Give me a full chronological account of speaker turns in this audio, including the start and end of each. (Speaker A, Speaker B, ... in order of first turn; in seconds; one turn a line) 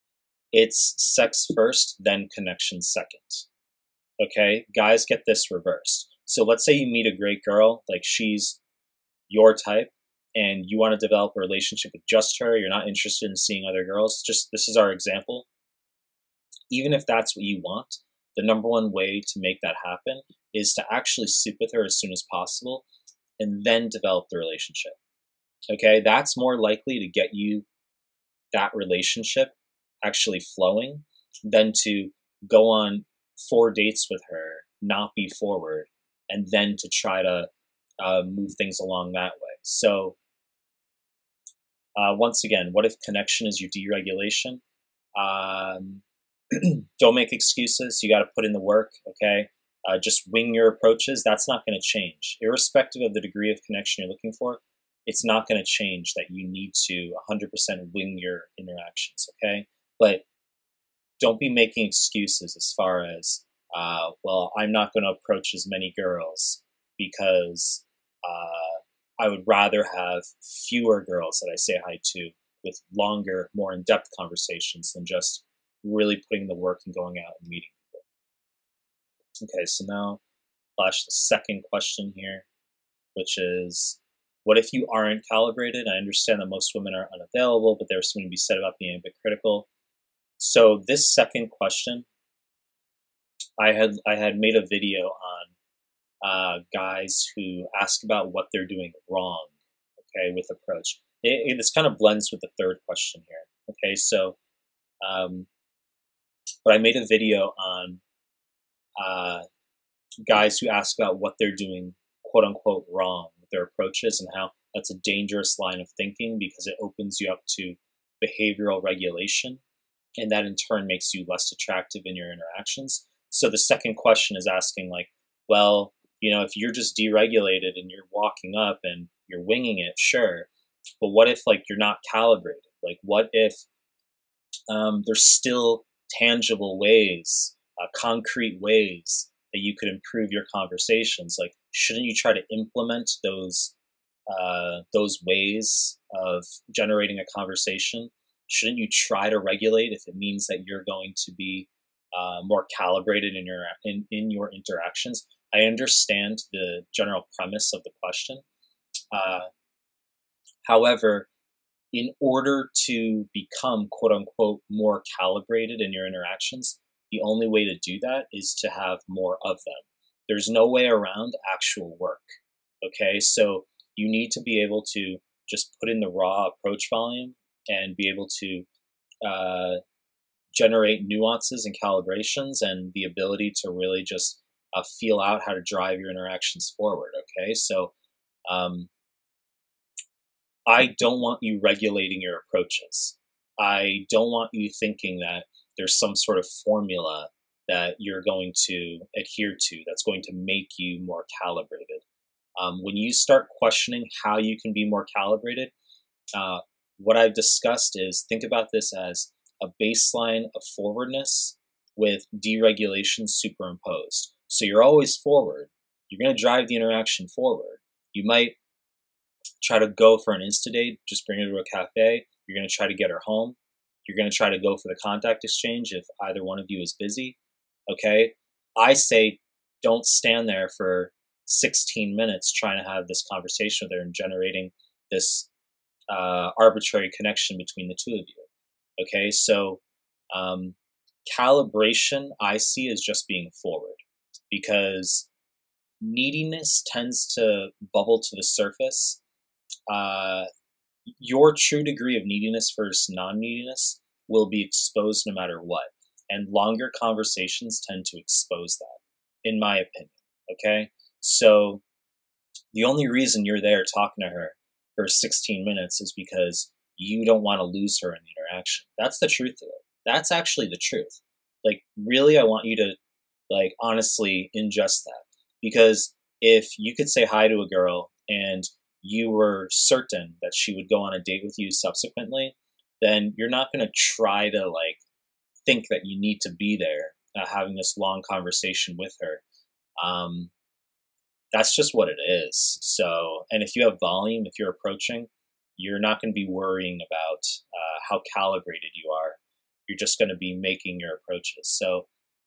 Speaker A: 0.5-3.5
Speaker A: 4.2-8.6
Speaker A: 9.3-15.5
Speaker A: 16.7-22.8
Speaker A: 23.4-25.0
Speaker A: 25.7-27.7
Speaker A: 28.5-37.5
Speaker A: 38.0-40.2
Speaker A: 42.0-44.6
Speaker A: 45.2-60.2
Speaker A: 61.2-78.0
Speaker A: 79.4-80.2
Speaker A: 80.8-82.5
Speaker A: 83.2-89.7
Speaker A: 90.4-92.1
Speaker A: 93.6-95.5
Speaker A: 96.2-104.4
Speaker A: 105.0-105.5
Speaker A: 106.7-108.0
Speaker A: 109.0-109.5
Speaker A: 110.3-119.6
Speaker A: 120.2-130.5
Speaker A: 131.0-133.7
Speaker A: 134.7-143.7
Speaker A: 144.3-158.4
Speaker A: 159.1-159.5
Speaker A: 160.6-161.3
Speaker A: 161.9-178.7
Speaker A: 179.2-179.8
Speaker A: 180.5-187.9
Speaker A: 188.5-188.9
Speaker A: 190.7-202.0
Speaker A: 202.6-205.7
Speaker A: 206.3-218.6
Speaker A: 219.6-235.5
Speaker A: 236.1-238.5
Speaker A: 239.0-245.3
Speaker A: 246.0-249.2
Speaker A: 249.9-250.5
Speaker A: 251.2-261.8
Speaker A: 262.7-272.9
Speaker A: 273.5-285.0
Speaker A: 285.6-289.4
Speaker A: 290.0-290.5
Speaker A: 291.5-302.1